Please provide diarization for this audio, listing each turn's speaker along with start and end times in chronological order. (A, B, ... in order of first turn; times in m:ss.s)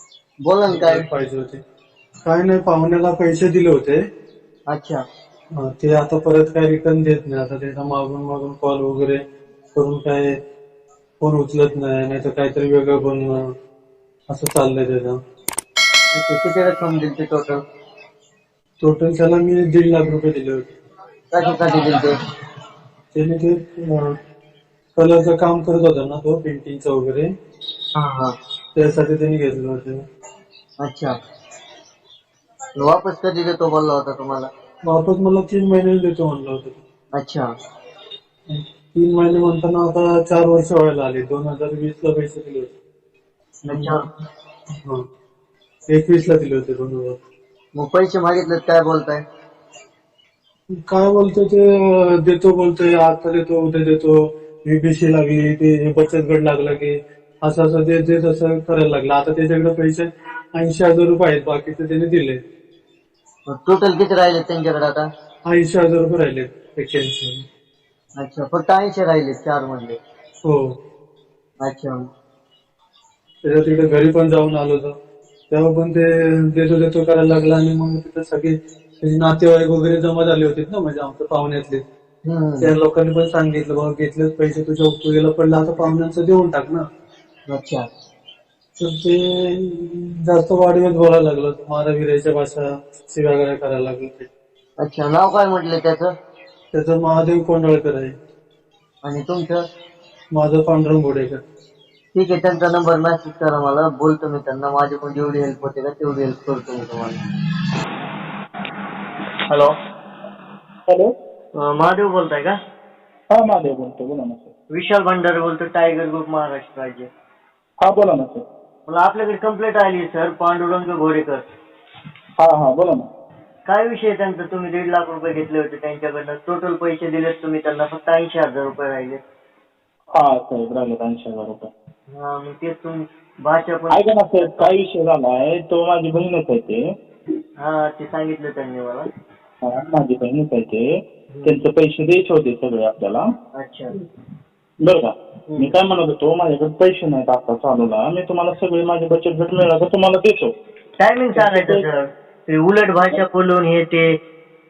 0:00.4-0:01.1 A
0:00.7-0:01.6 B
0:02.2-0:04.0 B
0:04.7-0:05.0 A
0:05.6-0:09.2 B
0:09.7-0:10.3 B
0:11.2-0:13.4 B
0:14.3-0:15.2 B
0:16.1-0:17.6 A
0:18.8-0:20.7 B
0:21.3-0:22.1 A
0:23.1-0:24.1 B
0:25.0-0:27.3 B
0:28.0-0:28.3 A
0:28.8-0:30.0 B
0:30.8-0:31.1 A
0:32.8-0:34.5 A
0:34.8-0:36.8 B
0:37.1-0:37.5 A
0:38.5-0:42.7 B
0:43.7-0:44.0 A
0:43.7-0:44.0 B
0:45.9-0:47.1 B
0:47.7-0:49.2 A
0:50.9-1:02.4 B
1:03.5-1:05.0 A
1:05.5-1:07.4 B
1:08.2-1:10.0 A
1:11.6-1:12.1 A
1:13.4-1:14.9 B
1:15.5-1:21.8 B
1:22.2-1:22.7 A
1:22.6-1:26.8 B
1:27.5-1:27.8 A
1:28.8-1:34.3 B
1:34.8-1:36.1 A
1:36.7-1:38.1 B
1:39.0-1:39.6 A
1:40.3-1:41.4 B
1:42.1-1:47.2 A
1:50.9-1:51.1 C
1:51.6-1:52.5 A
1:53.3-1:54.5 C
1:54.7-1:57.1 A
1:57.8-1:58.4 C
1:58.9-2:01.4 A
2:02.4-2:03.0 C
2:03.6-2:09.2 A
2:10.1-2:11.7 C
2:12.1-2:14.0 A
2:13.9-2:16.8 C
2:17.6-2:19.1 A
2:19.6-2:20.8 C
2:21.3-2:21.6 A
2:21.4-2:23.3 C
2:23.6-2:23.9 A
2:24.8-2:30.5 C
2:31.0-2:34.2 A
2:31.4-2:31.8 C